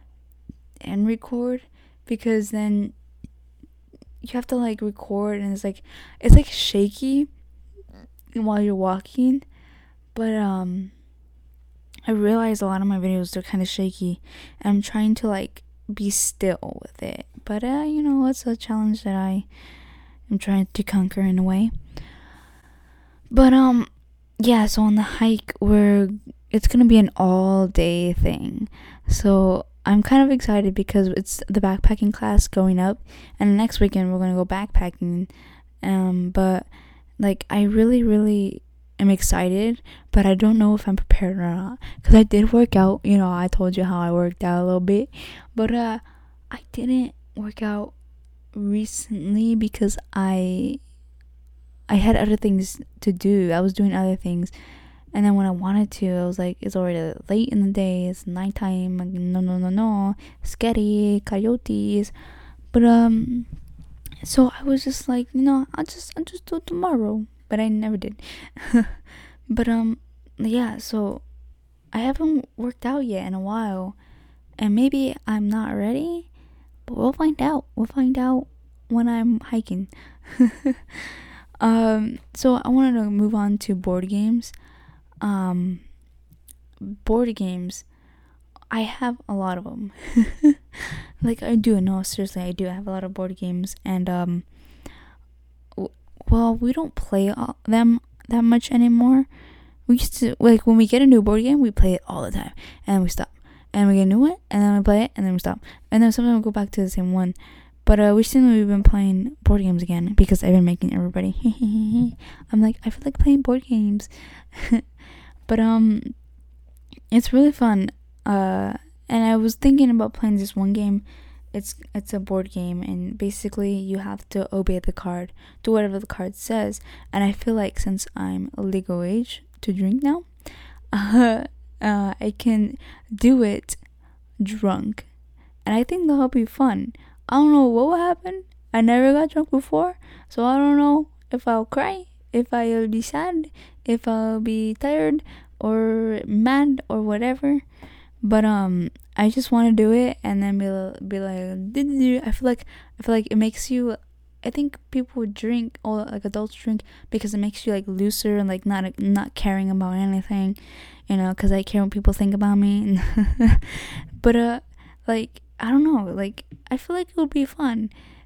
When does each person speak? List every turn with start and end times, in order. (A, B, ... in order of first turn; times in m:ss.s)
0:00.8-0:02.9 A
0:04.2-0:07.3 A
0:08.3-0:09.4 A
0:10.1-0:10.9 A
0:12.1-0:19.4 A
0:20.3-0:21.7 A
0:23.3-0:23.9 A
0:24.4-0:35.3 A
0:35.8-0:36.7 A
0:37.2-0:47.9 A
0:48.5-0:50.8 A
0:51.9-0:54.5 A
0:55.1-1:02.1 A
1:02.7-1:03.5 A
1:04.2-1:09.0 A
1:09.5-1:11.2 A
1:11.9-1:14.0 A
1:14.6-1:16.3 A
1:16.9-1:24.5 A
1:25.2-1:25.8 A
1:26.8-1:27.8 A
1:28.7-1:34.4 A
1:35.8-1:39.3 A
1:39.9-1:54.8 A
1:55.5-1:56.1 A
1:57.1-2:10.2 A
2:10.9-2:13.8 A
2:14.4-2:15.1 A
2:15.6-2:27.6 A
2:28.2-2:40.6 A
2:41.1-2:47.9 A